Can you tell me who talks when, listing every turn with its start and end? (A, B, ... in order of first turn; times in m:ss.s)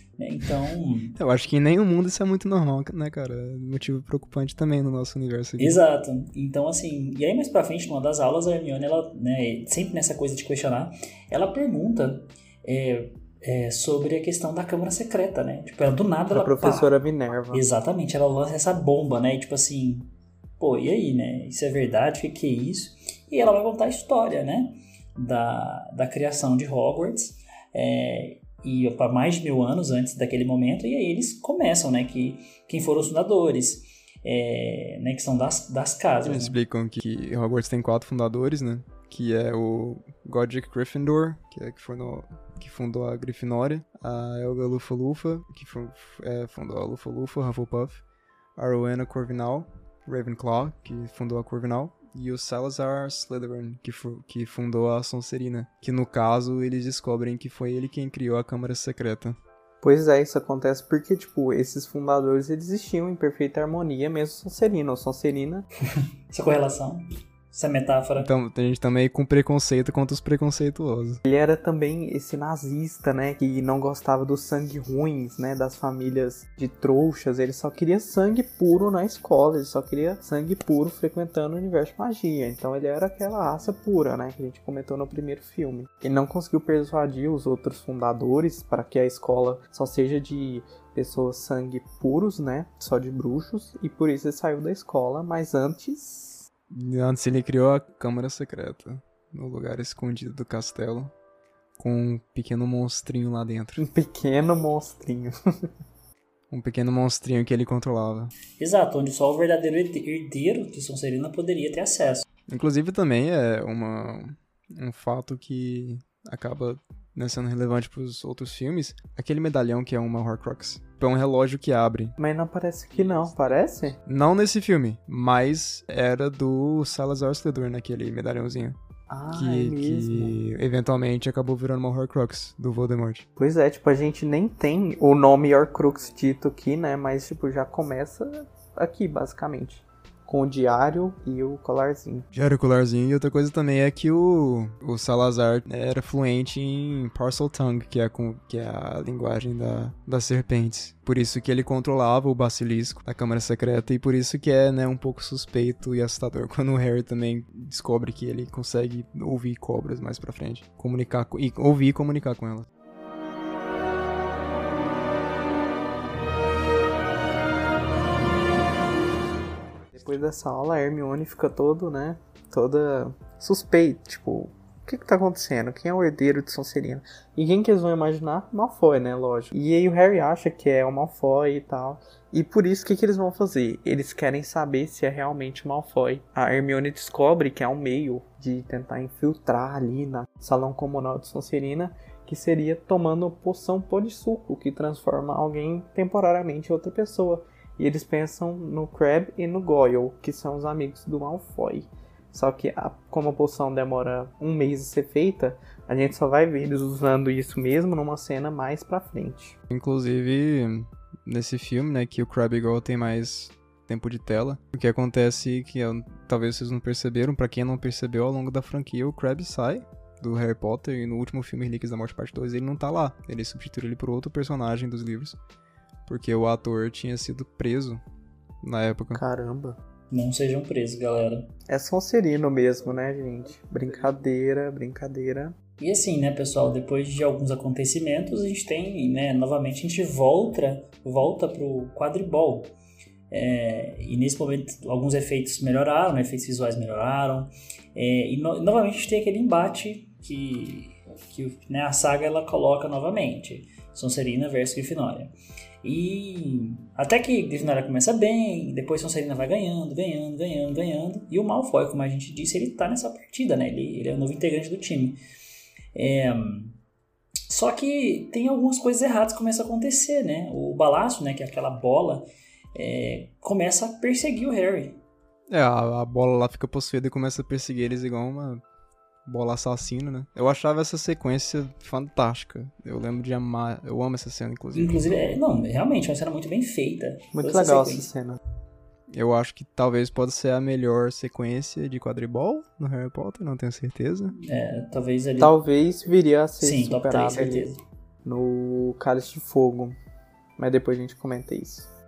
0:00.2-0:01.2 A
0:01.2-0:05.8 B
0:05.6-0:16.9 A
0:16.3-0:17.6 C
0:17.5-0:36.6 A
0:36.2-0:48.0 B
0:48.6-0:59.4 B
0:59.8-1:05.7 C
1:06.3-1:08.3 A
1:08.2-1:11.2 B
1:11.3-1:36.5 C
1:36.7-1:41.1 B
1:41.8-1:43.9 B
1:43.8-1:45.7 C
1:46.5-1:48.3 B
1:48.6-1:52.2 A
1:52.5-2:02.2 B
2:02.2-2:04.0 C
2:04.1-2:08.8 B
2:09.1-2:10.4 C
2:09.3-2:13.3 B
2:13.4-2:22.3 C
2:22.3-2:42.7 B
2:49.9-3:29.6 C
3:29.7-3:45.4 B
3:46.1-3:48.0 B
3:48.6-3:49.2 B
3:49.1-3:49.8 C
3:50.1-3:51.5 A
3:51.7-3:55.6 C
3:55.8-4:02.7 A
4:03.3-4:15.3 A
4:15.8-4:25.2 A
4:26.0-4:26.8 A
4:27.5-4:32.2 A
4:32.8-4:35.0 A
4:35.5-4:38.6 B
4:39.3-4:45.2 B
4:44.7-4:48.1 A
4:47.3-4:48.4 C
4:49.1-4:54.4 B
4:54.4-4:55.5 A
4:55.4-4:57.7 C
4:56.6-4:57.8 A
4:58.2-5:00.0 C
5:00.6-5:01.9 C